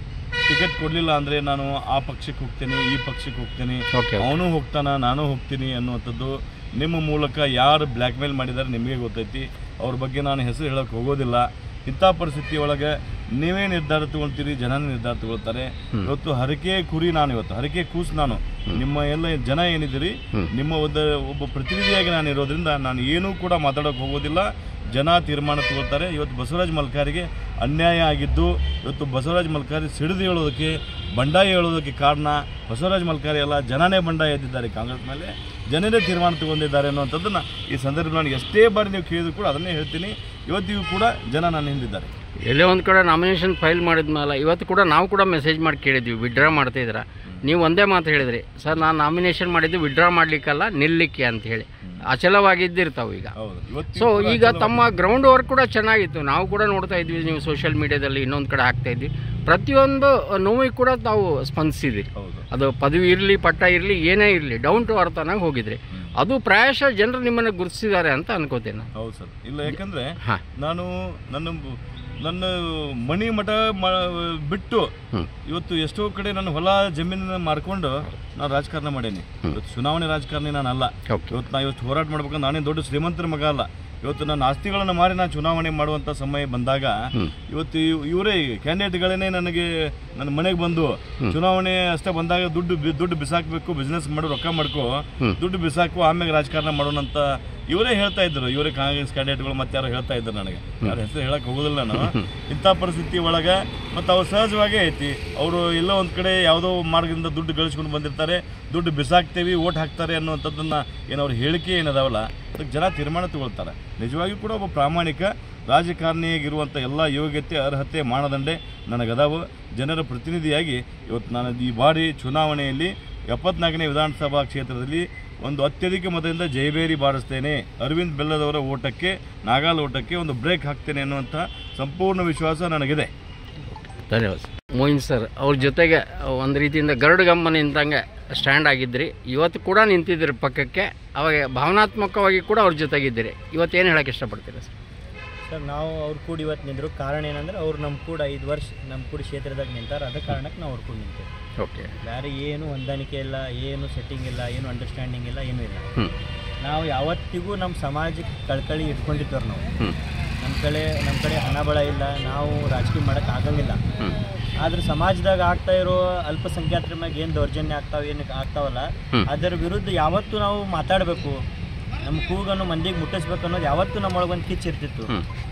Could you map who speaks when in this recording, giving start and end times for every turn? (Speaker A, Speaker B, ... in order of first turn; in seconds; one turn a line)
Speaker A: 0.5-42.1
Speaker B: 3.9-4.3
Speaker B: 42.5-53.3
Speaker A: 53.4-54.8
Speaker B: 53.9-68.9
Speaker A: 62.2-62.5
Speaker A: 69.0-74.9
Speaker B: 69.7-70.4
Speaker A: 75.5-87.0
Speaker B: 81.1-81.4
Speaker A: 87.5-133.1
Speaker B: 101.9-102.3
Speaker B: 134.0-144.7
Speaker C: 145.5-151.3
Speaker B: 151.6-151.9
Speaker C: 152.0-155.9
Speaker C: 156.6-159.6
Speaker C: 160.4-163.8
Speaker C: 164.6-171.4
Speaker C: 172.0-175.1